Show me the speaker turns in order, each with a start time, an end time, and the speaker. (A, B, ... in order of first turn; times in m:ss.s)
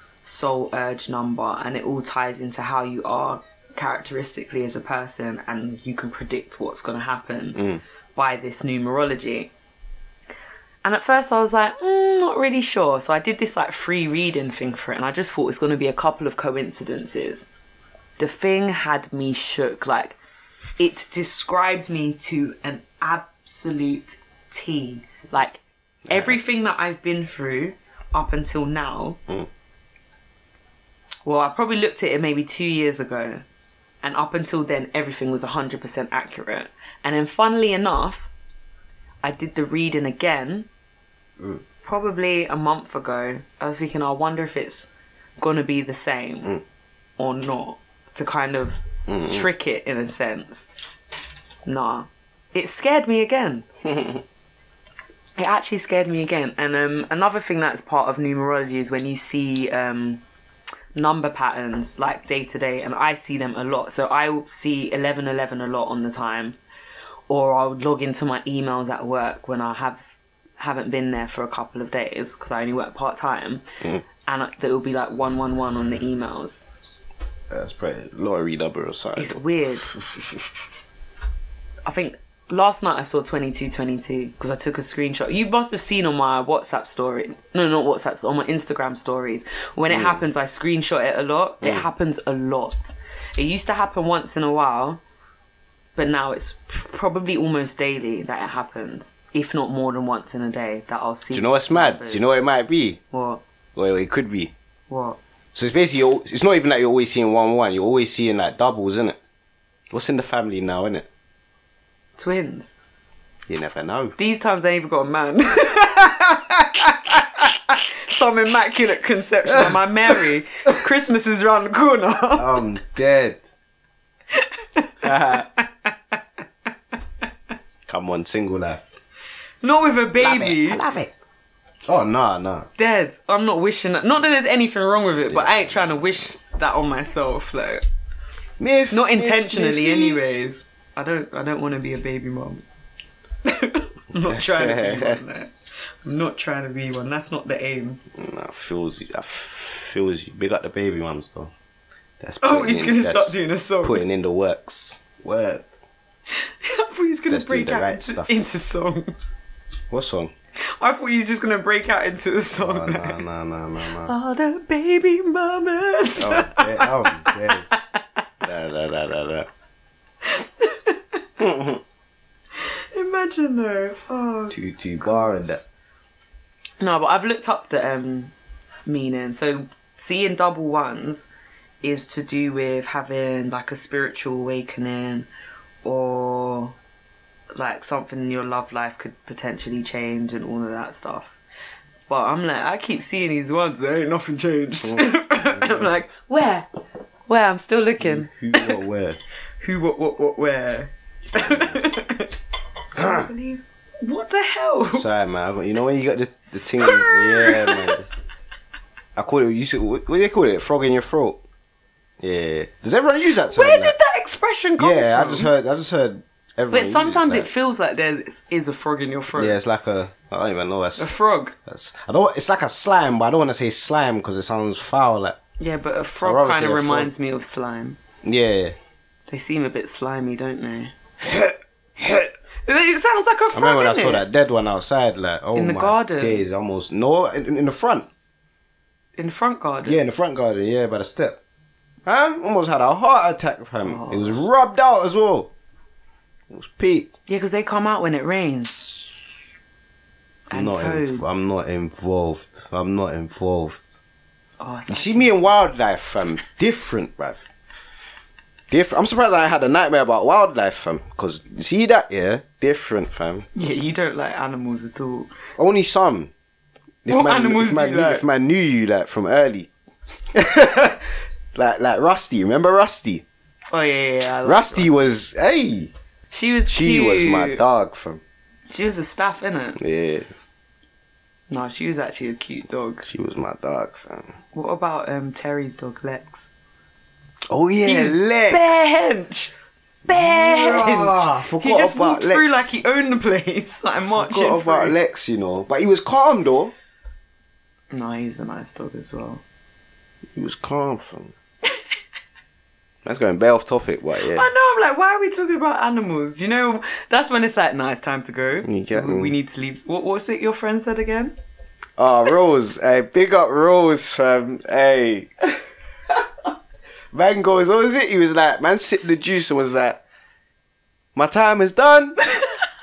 0:00.2-0:09.5 A
0:07.6-0:07.8 B
0:10.8-0:17.5 A
0:18.2-0:20.2 A
0:20.8-0:29.2 A
0:26.1-0:26.4 B
0:31.3-0:33.4 A
0:34.0-0:38.3 A
0:39.2-0:40.7 A
0:41.8-0:44.9 A
0:45.4-0:46.6 A
0:47.2-0:50.7 A
0:49.1-0:49.5 B
0:51.7-0:53.7 A
0:53.8-0:54.2 B
0:55.4-1:00.2 A
1:01.0-1:06.6 A
1:07.3-1:13.6 A
1:14.2-1:16.6 A
1:17.5-1:19.4 B
1:19.2-1:19.9 A
1:19.9-1:20.6 B
1:21.9-1:35.0 A
1:29.9-1:30.2 B
1:36.0-1:42.3 A
1:41.3-1:43.0 B
1:43.1-1:43.4 A
1:43.8-1:44.5 B
1:44.9-1:45.2 A
1:45.6-1:49.2 B
1:49.9-1:51.1 B
1:52.2-1:52.7 A
1:53.5-1:54.2 B
1:54.2-2:02.6 A
1:59.5-2:00.2 B
2:02.4-2:03.4 B
2:04.3-2:05.9 A
2:05.0-2:05.5 B
2:07.9-2:08.8 B
2:09.6-2:10.8 A
2:10.2-2:11.1 B
2:11.9-2:12.7 B
2:12.8-2:17.8 A
2:15.3-2:15.8 B
2:18.6-2:20.2 B
2:18.9-2:22.6 A
2:23.4-2:28.0 A
2:24.2-2:25.2 B
2:28.2-2:31.5 B
2:32.2-2:35.7 B
2:32.4-2:34.0 A
2:36.4-2:39.1 A
2:37.3-2:38.3 B
2:39.9-2:40.3 B
2:40.8-2:43.2 A
2:42.5-2:44.1 B
2:44.0-2:48.0 A
2:46.2-2:47.7 B
2:48.4-2:49.5 B
2:50.2-2:51.2 A
2:51.4-2:51.8 B
2:52.6-2:55.6 A
2:54.5-2:55.6 B
2:56.8-2:58.3 A
2:58.9-3:01.3 A
3:01.8-3:05.3 A
3:05.8-3:06.8 A
3:07.6-3:11.4 A
3:12.1-3:16.7 A
3:14.8-3:16.0 B
3:17.3-3:18.8 A
3:18.0-3:19.2 B
3:19.6-3:22.4 A
3:21.4-3:21.8 B
3:22.9-3:25.1 A
3:23.0-3:23.3 B
3:24.9-3:28.1 B
3:26.8-3:28.0 A
3:29.2-3:31.4 B
3:32.2-3:34.0 B
3:33.4-3:35.5 A
3:34.8-3:37.5 B
3:36.7-3:39.6 A
3:39.3-3:41.1 B
3:41.0-3:41.5 A
3:41.7-3:45.4 B
3:45.6-3:48.0 A
3:46.2-3:47.1 B
3:48.2-3:48.8 B
3:49.3-3:50.9 A
3:51.2-3:52.3 B
3:52.7-3:54.2 A
3:53.5-3:58.1 B
3:55.6-3:56.5 A
3:59.2-4:00.0 A
3:59.8-4:01.4 B
4:02.1-4:05.5 B
4:03.8-4:04.4 A
4:06.5-4:07.1 B
4:07.3-4:08.9 A
4:10.5-4:11.4 A
4:10.5-4:13.8 B
4:14.6-4:15.5 A
4:14.9-4:17.4 B
4:18.7-4:23.5 B
4:23.6-4:25.3 A
4:25.6-4:26.3 B
4:27.0-4:29.7 B
4:27.1-4:28.3 A
4:30.3-4:33.2 B
4:33.7-4:35.0 A
4:34.4-4:35.9 B
4:36.3-4:37.6 A
4:36.7-4:38.2 B
4:38.7-4:39.8 A
4:39.8-4:40.3 B
4:41.5-4:43.1 A
4:43.1-4:44.4 B
4:44.5-4:46.5 A
4:47.5-4:48.9 B
4:47.8-4:49.5 A
4:50.1-4:55.0 A
4:50.1-4:52.7 B
4:54.1-4:56.7 B
4:57.9-4:59.4 A
5:00.4-5:01.3 B
5:03.0-5:04.5 B
5:04.2-5:11.3 A
5:08.6-5:09.3 B
5:12.0-5:16.5 B
5:17.1-5:20.0 B
5:21.2-5:22.2 B